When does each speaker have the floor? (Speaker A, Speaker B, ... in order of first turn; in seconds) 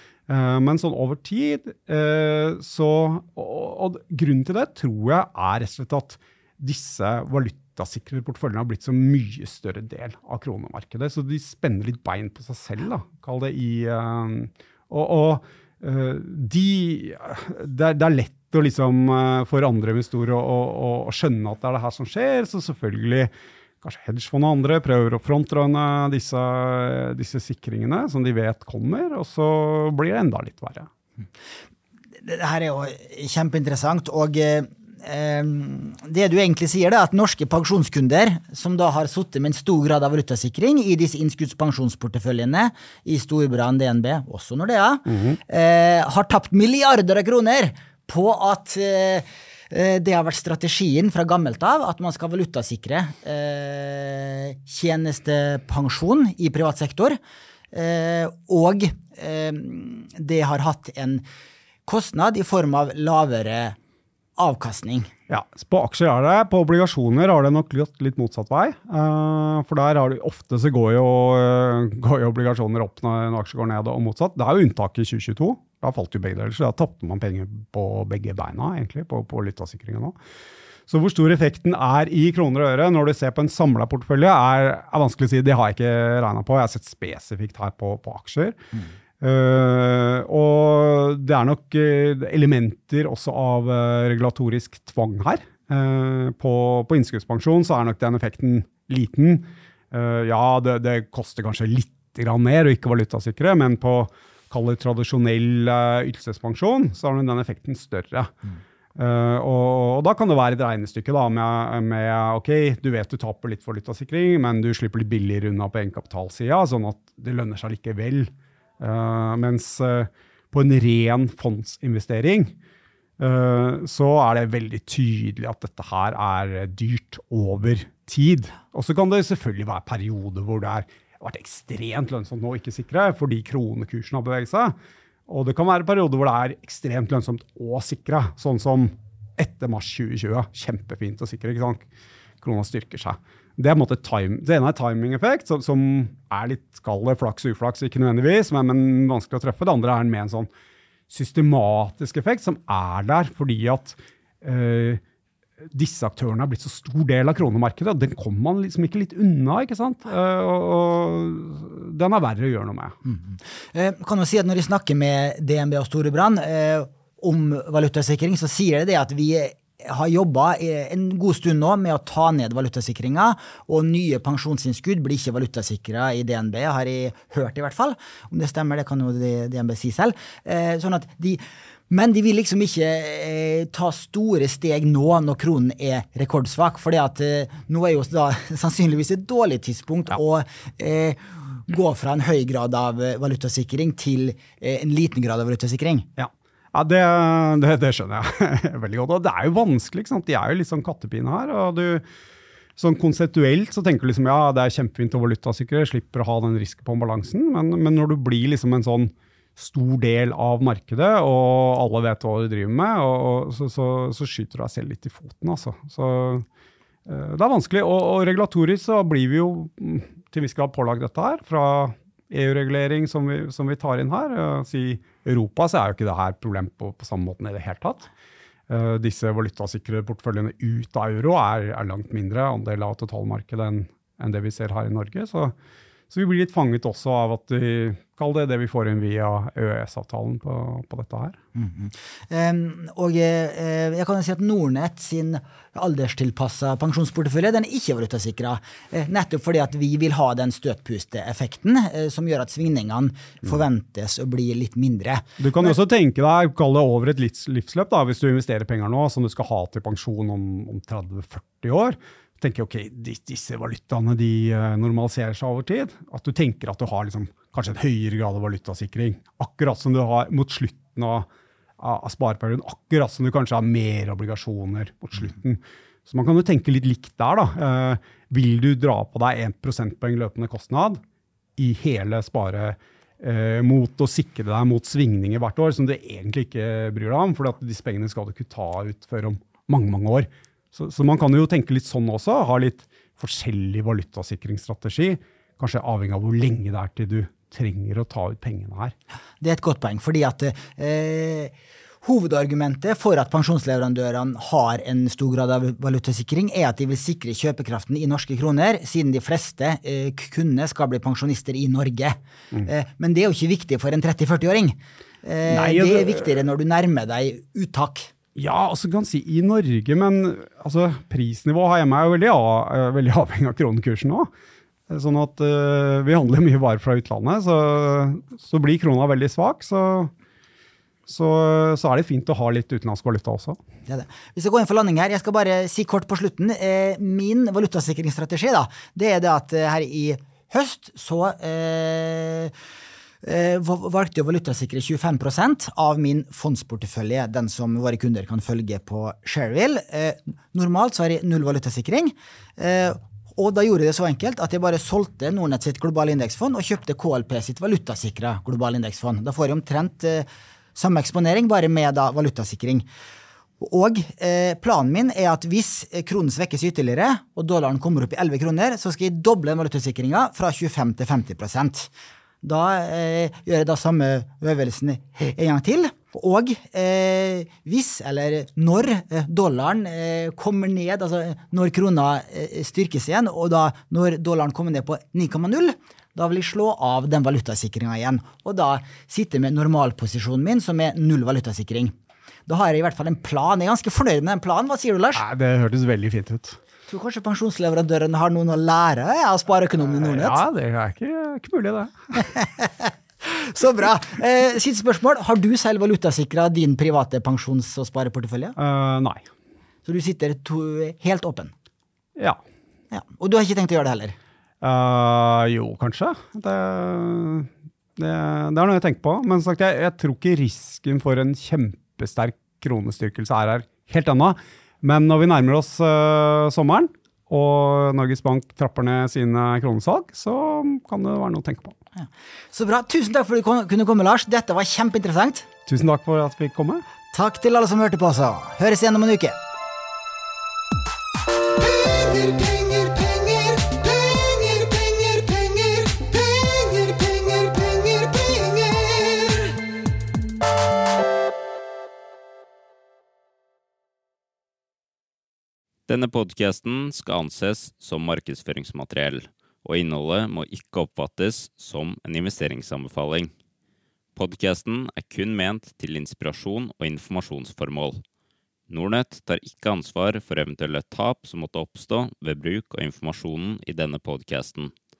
Speaker A: 0.3-23.3, 23.8-30.9, 45.1-45.4, 65.3-80.1, 80.9-88.6, 89.2-108.3, 108.9-122.5, 123.2-134.8, 135.3-141.8, 142.4-150.5, 151.1-155.0, 155.7-163.0, 196.2-202.0, 202.8-216.4, 217.1-228.1, 228.7-235.5, 236.1-241.4, 255.4-271.3, 271.8-281.0, 281.6-298.9, 315.5-316.3, 318.3-324.3, 324.9-330.1, 331.1-333.6, 395.1-396.6, 399.9-402.1, 408.6-409.3, 412.1-412.4, 414.6-431.8, 435.6-436.8
Speaker B: 32.2-57.2, 57.7-61.2, 61.9-63.8, 64.4-65.1, 163.0-196.1, 241.5-255.7, 299.4-318.1, 333.9-342.5, 343.2-362.9, 363.6-371.9, 372.4-391.9, 392.5-395.2, 396.9-400.4, 402.2-408.6, 409.8-411.5, 412.9-414.1, 431.9-435.4, 437.1-439.4
Speaker C: 455.9-463.3, 464.1-468.0, 468.7-474.7